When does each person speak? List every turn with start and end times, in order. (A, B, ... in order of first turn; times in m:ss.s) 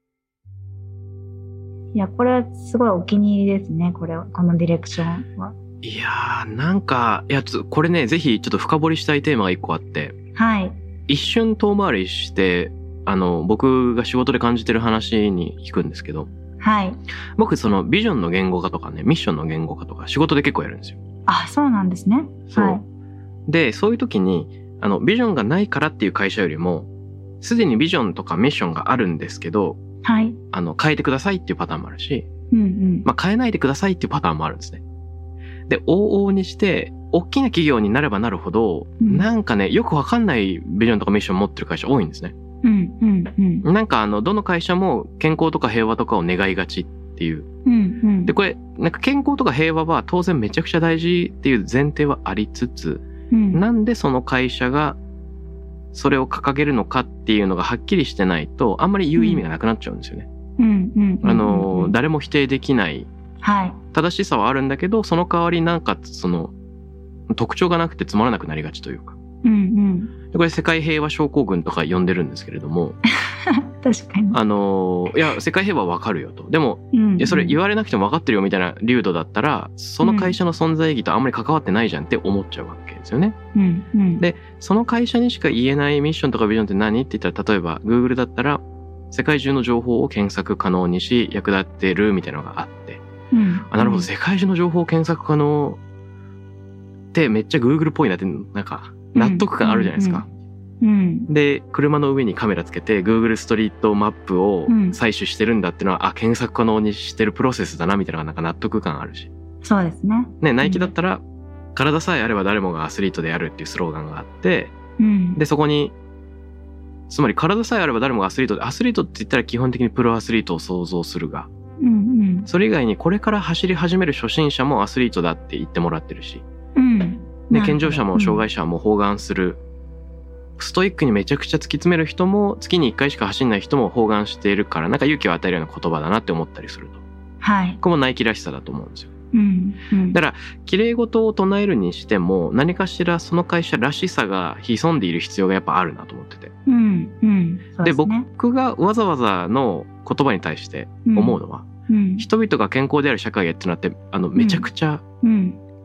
0:02.0-0:05.6 A
0:05.8-0:10.2 B
0:10.4-0:10.8 A
0:11.1-0:16.3 B
0:16.6-0:17.0 A
0:17.4-0:21.0 B
0:21.3-0:22.8 A
0:22.5-0:22.8 B
0:23.5-0:26.9 B
0:27.4-0:29.8 B
0:30.0-0:30.4 A
0:30.5-0:32.3 B
0:32.5-0:33.1 A
0:33.0-0:34.8 B
0:35.7-0:42.4 B
0:39.0-0:39.3 A
0:42.6-0:43.6 A
0:43.6-0:47.5 B
0:47.7-0:48.3 A
0:48.3-0:55.0 B
0:53.3-0:53.6 A
0:55.9-1:00.3 B
0:59.2-0:59.4 A
1:00.6-1:02.0 A
1:01.2-1:03.1 B
1:03.4-1:03.8 A
1:03.9-1:06.5 B
1:07.3-1:09.2 B
1:09.4-1:10.1 A
1:10.3-1:13.0 B
1:13.5-1:14.4 A
1:14.3-1:23.4 B
1:16.9-1:17.6 A
1:20.0-1:20.4 A
1:23.6-1:24.2 A
1:24.2-1:33.0 B
1:33.3-1:34.1 A
1:33.7-1:35.8 B
1:37.1-1:40.3 B
1:39.1-1:40.2 A
1:40.8-1:41.3 A
1:41.3-1:49.3 B
1:44.7-1:45.0 A
1:49.6-1:50.9 A
1:50.4-1:51.2 B
1:51.8-1:54.8 B
1:55.0-1:55.4 A
1:55.4-1:55.9 B
1:57.1-2:01.5 B
2:01.8-2:02.5 A
2:02.5-2:06.4 B
2:06.8-2:08.4 A
2:07.5-2:09.6 B
2:10.6-2:17.0 B
2:17.4-2:17.8 A
2:17.8-2:19.1 B
2:19.3-2:20.2 A
2:20.1-2:26.5 B
2:26.7-2:28.3 A
2:27.8-2:31.7 B
2:31.1-2:32.3 A
2:32.2-2:35.0 B
2:34.4-2:34.7 A
2:35.2-2:35.6 A